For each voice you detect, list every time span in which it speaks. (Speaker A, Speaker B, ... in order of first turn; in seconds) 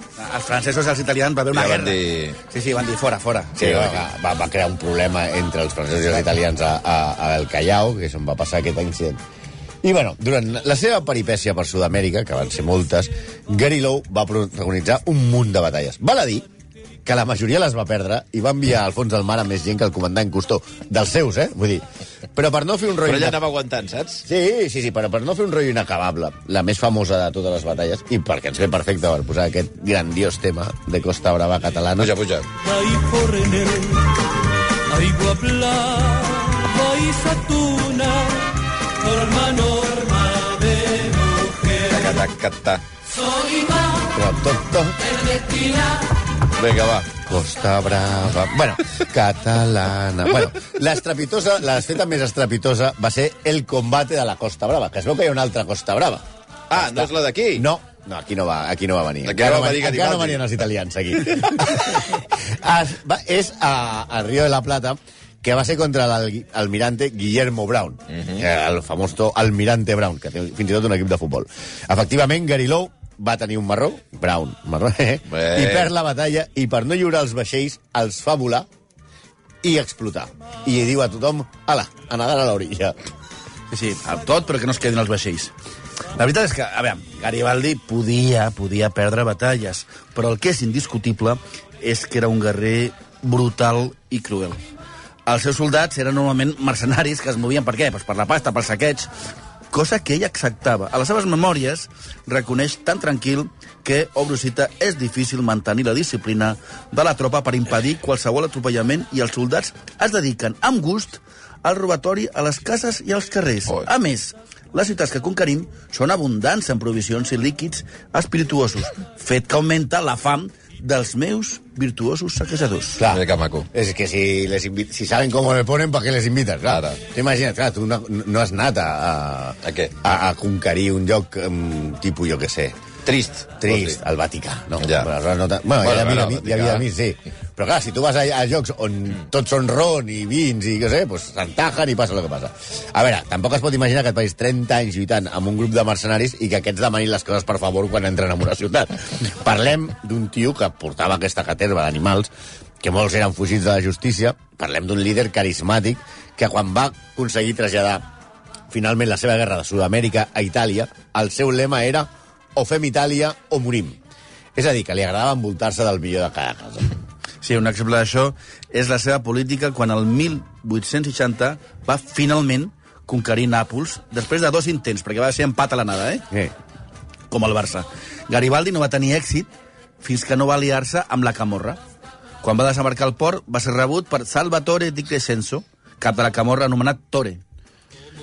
Speaker A: 0.2-3.7, 83.7-85.5, 86.1-94.6, 95.2-99.1, 99.7-123.0, 167.4-176.2, 177.3-179.5, 180.0-181.8, 182.4-187.4
Speaker B: 1.5-2.4, 3.6-4.0, 23.0-24.2, 32.0-32.5, 41.9-42.8, 46.6-47.1, 56.7-57.6, 59.2-60.5, 68.1-68.4, 75.3-75.9, 123.0-123.7, 126.7-127.0, 129.6-129.9, 133.1-134.0, 134.8-135.1, 135.8-136.8
Speaker C: 3.6-9.2, 9.8-16.5, 17.0-23.4, 24.2-32.1, 44.1-45.0, 47.2-78.7, 79.6-82.9, 123.0-132.8, 133.6-158.0, 158.7-164.0, 164.5-166.9
Speaker D: 32.7-34.0, 34.9-38.5, 39.0-42.0, 43.2-44.0, 45.2-46.0